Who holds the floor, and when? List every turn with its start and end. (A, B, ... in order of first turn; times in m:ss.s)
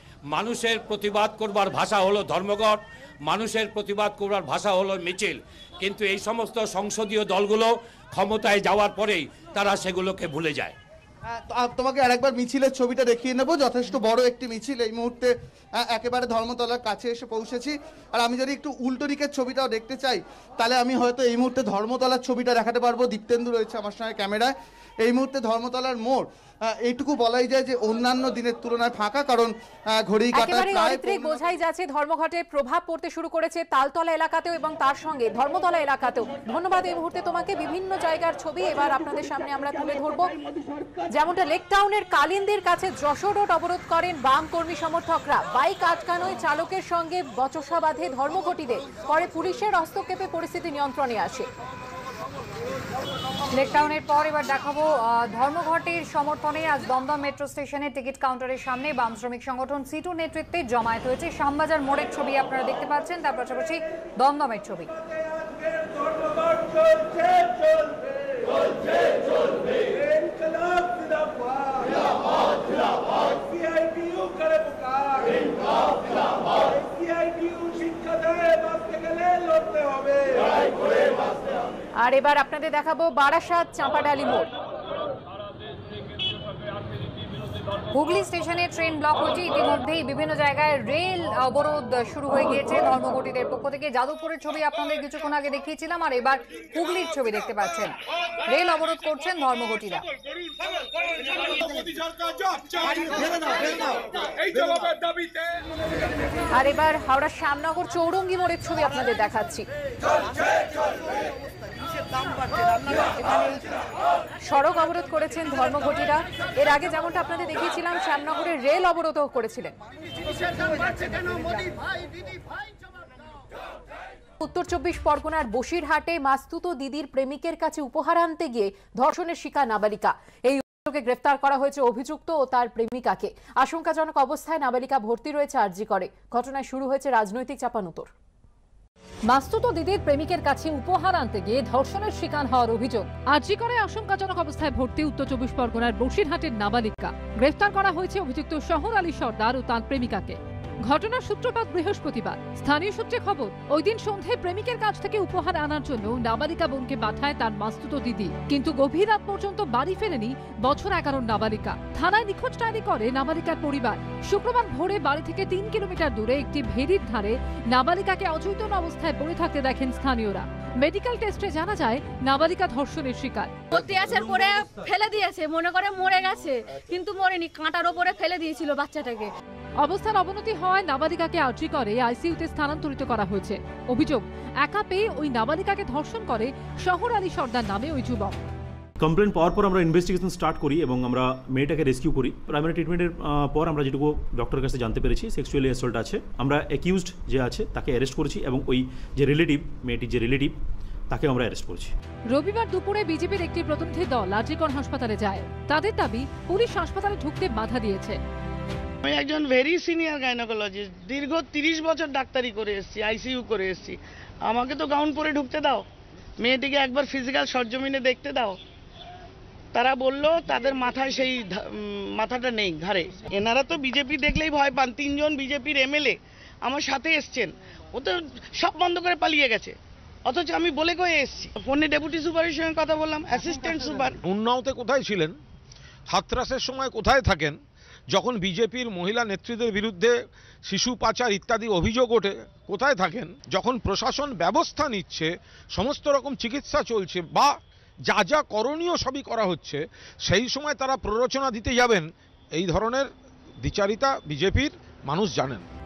0:00.3-0:10.7 A
0:11.3-0:15.3 B
0:15.8-0:31.3 B
0:30.3-0:40.3 C
0:41.1-0:51.5 C
0:53.5-1:04.9 D
1:22.0-1:24.5 C
1:27.9-1:37.9 D
1:38.5-1:40.0 D
1:46.5-1:49.6 C
1:52.7-1:53.6 C
1:54.4-1:59.7 C
2:04.4-2:18.1 C
2:19.3-2:53.6 E
2:53.7-2:59.3 F
2:59.8-3:08.4 E
3:09.0-3:20.5 G
3:21.1-3:21.9 G
3:22.3-3:28.2 E
3:29.0-3:35.8 H
3:36.4-3:38.6 H
3:39.7-3:54.2 H
3:54.2-3:55.4 I
3:56.1-3:57.6 I
3:58.1-4:15.6 I